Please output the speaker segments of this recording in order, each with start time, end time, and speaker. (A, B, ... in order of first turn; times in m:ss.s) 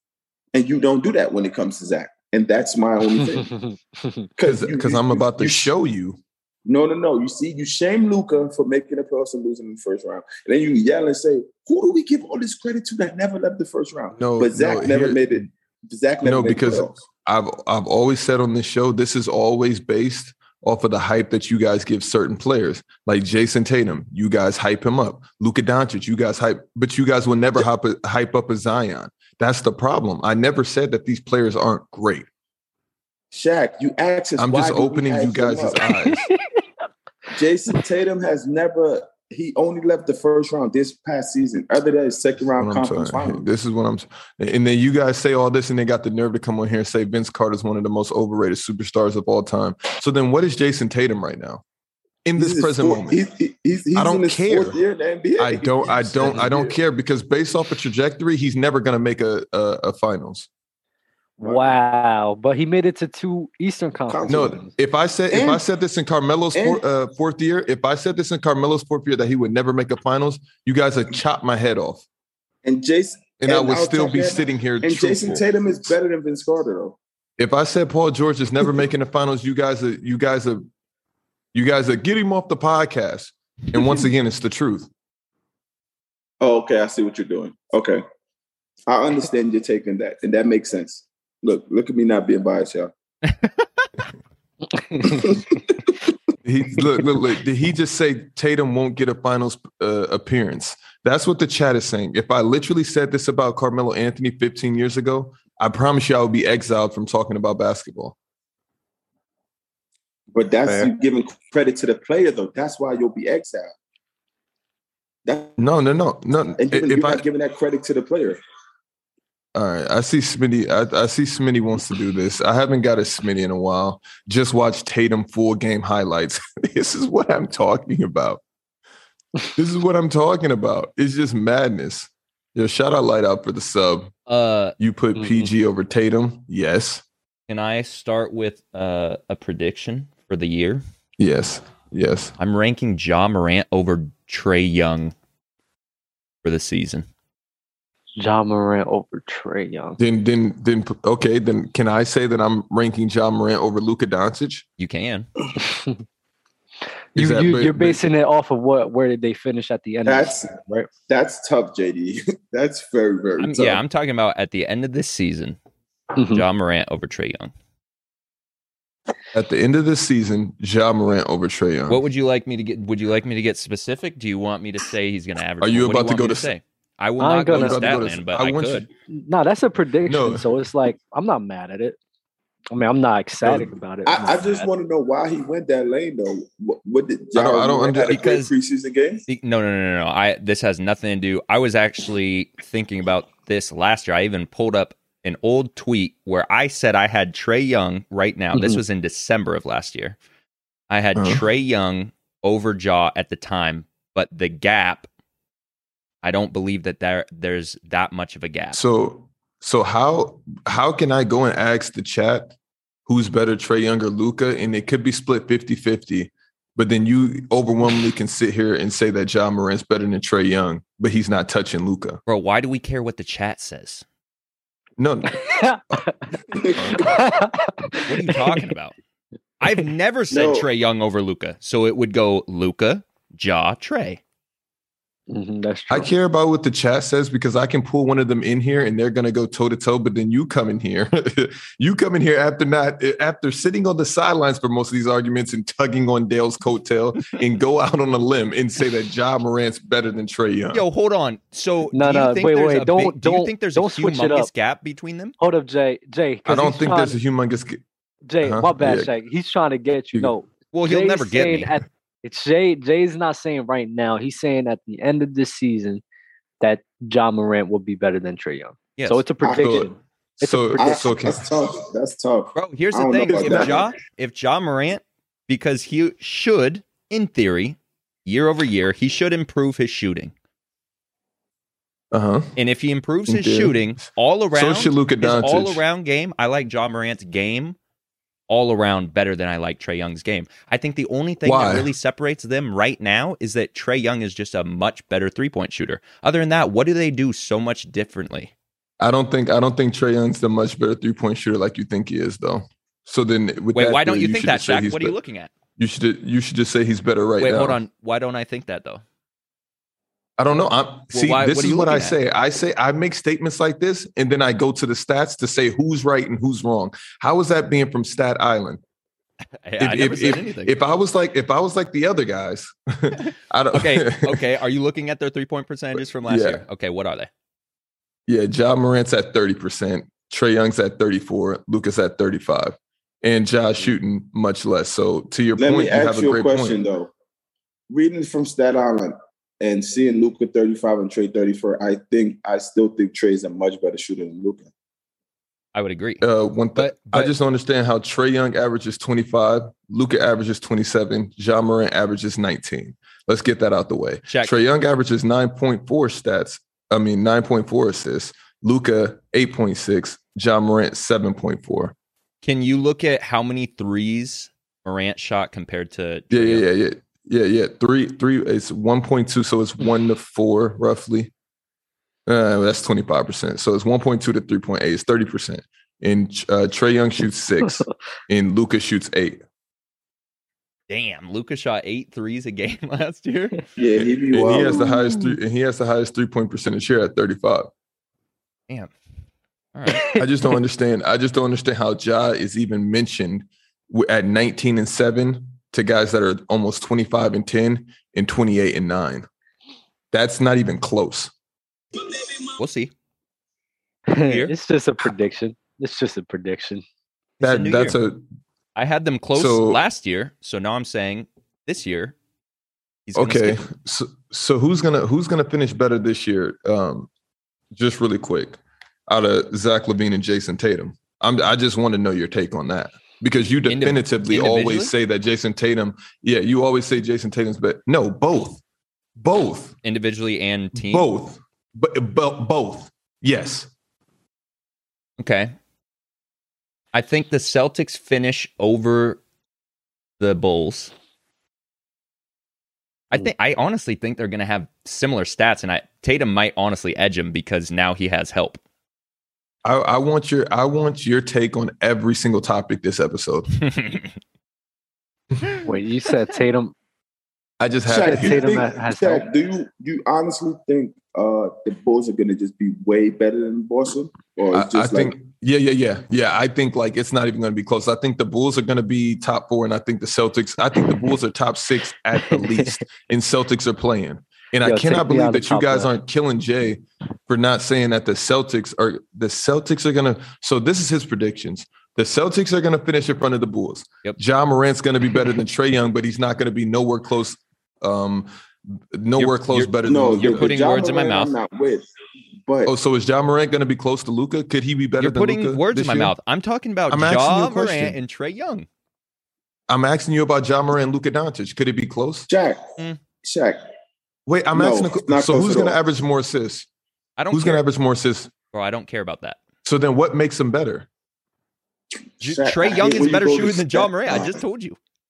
0:00.5-0:03.5 A
0:03.2-0:04.3 B
0:04.4-0:05.7 A
0:04.4-0:06.2 C
0:06.7-0:17.0 A
0:14.2-0:15.4 C
0:16.2-0:32.3 C
0:33.3-0:35.8 A
0:34.4-0:36.2 C
0:36.0-0:36.6 B
0:37.3-0:43.5 A
0:42.6-0:51.6 C
0:52.2-0:53.2 C
0:52.4-0:56.8 A
0:54.0-0:54.8 C
0:55.4-1:00.5 C
1:01.4-1:04.7 B
1:01.4-1:01.8 A
1:04.1-1:04.6 A
1:04.3-1:12.0 C
1:05.3-1:05.6 A
1:06.5-1:06.8 A
1:12.6-1:17.0 A
1:13.4-1:15.4 C
1:17.4-1:20.7 C
1:21.5-1:24.9 C
1:26.4-1:28.0 A
1:28.9-1:32.9 A
1:33.4-1:33.6 D
1:35.0-1:35.3 B
1:35.0-1:35.8 A
1:36.4-1:48.2 C
1:50.3-1:53.7 A
1:50.7-1:50.9 C
1:55.3-1:55.6 A
1:55.6-1:57.2 C
1:56.6-1:58.4 A
1:59.6-2:08.4 C
2:09.6-2:14.1 C
2:14.3-2:14.8 D
2:14.8-2:17.0 C
2:15.2-2:15.5 B
2:17.5-2:20.8 D
2:21.2-2:22.3 C
2:22.4-2:25.2 D
2:26.4-2:27.1 D
2:28.2-2:30.0 B
2:30.0-2:34.6 C
2:34.8-2:35.3 D
2:35.6-2:36.0 B
2:37.2-2:40.9 B
2:37.2-2:38.1 C
2:40.0-2:43.8 A
2:43.4-2:45.6 D
2:46.2-2:46.4 B
2:46.3-2:47.5 D
2:49.3-2:52.0 C
2:51.9-2:58.9 D
2:55.6-2:56.5 C
2:57.2-2:58.0 B
2:57.5-2:58.9 C
2:59.1-3:02.0 B
3:00.0-3:00.7 C
3:02.7-3:04.7 B
3:03.4-3:03.8 C
3:04.0-3:09.3 A
3:07.4-3:08.2 C
3:08.1-3:08.5 D
3:09.3-3:20.2 D
3:18.6-3:18.8 B
3:20.9-3:25.1 D
3:21.2-3:21.4 C
3:26.2-3:28.8 D
3:28.7-3:32.5 C
3:33.1-3:42.2 C
3:42.3-3:44.0 D
3:45.0-3:47.2 C
3:45.4-3:45.8 B
3:46.6-3:47.1 A
3:47.0-3:48.7 B
3:48.1-3:49.0 D
3:49.6-3:54.2 D
3:50.3-3:50.7 A
3:55.3-3:56.1 B
3:55.9-4:10.8 C
4:10.7-4:15.4 D
4:11.9-4:14.5 B
4:15.4-4:17.2 B
4:16.5-4:17.8 C
4:18.3-4:26.0 B
4:18.4-4:19.1 C
4:20.7-4:21.7 D
4:26.6-4:31.2 B
4:29.0-4:29.2 D
4:29.4-4:29.9 A
4:29.6-4:31.5 C
4:30.8-4:33.9 A
4:32.6-4:40.3 D
4:33.3-4:33.7 C
4:42.1-4:42.6 C
4:42.6-4:47.8 D
4:43.3-4:45.8 C
4:48.5-4:58.5 D
4:51.4-4:51.9 C
4:59.0-5:05.2 C
5:03.7-5:05.5 D
5:05.8-5:07.8 C
5:07.4-5:09.0 D
5:10.4-5:18.8 C
5:11.1-5:12.2 D
5:19.6-5:20.7 D
5:19.8-5:24.4 C
5:23.7-5:27.3 D
5:26.2-5:26.6 C
5:28.3-5:36.8 C
5:35.6-5:37.1 A
5:37.9-5:44.7 A
5:45.7-5:46.2 D
5:46.2-6:02.0 C
5:46.8-5:47.3 D
5:54.3-5:54.5 D
6:02.4-6:06.7 D
6:06.3-6:11.3 C
6:12.3-6:19.4 C
6:20.9-6:23.6 D
6:23.8-6:24.9 A
6:24.0-6:27.7 C
6:29.7-6:30.1 D
6:30.1-6:39.3 C
6:40.1-6:41.3 C
6:42.6-6:42.9 D
6:44.1-6:46.8 B
6:44.2-6:44.5 D
6:47.4-6:48.0 D
6:47.4-6:48.2 C
6:48.8-6:52.2 D
6:49.3-6:49.8 C
6:53.1-6:53.7 D
6:53.2-6:57.1 C
6:57.7-7:08.6 C
7:03.7-7:04.9 D
7:09.2-7:09.8 C
7:09.8-7:11.1 D
7:10.8-7:13.7 C
7:15.2-7:15.6 D
7:16.9-7:19.2 D
7:20.2-7:20.9 D
7:23.1-7:28.6 D
7:29.6-7:33.6 C
7:33.7-7:34.1 D
7:35.6-7:36.7 B
7:37.6-7:38.6 C
7:37.9-7:45.2 A
7:37.9-7:39.3 B
7:44.5-8:10.5 C
7:52.3-7:52.8 B
7:54.6-7:55.9 B
8:09.2-8:11.3 D
8:09.8-8:11.9 A
8:12.5-8:12.7 A
8:12.7-8:16.2 C
8:15.0-8:18.7 D
8:16.9-8:18.0 C
8:19.7-8:22.3 C
8:22.3-8:22.7 A
8:23.2-8:23.6 A
8:24.3-8:26.7 C
8:24.5-8:25.8 A
8:27.2-8:27.6 D
8:27.3-8:28.3 C
8:28.5-8:29.4 D
8:29.6-8:30.9 C
8:32.2-8:34.4 A
8:32.2-8:34.8 D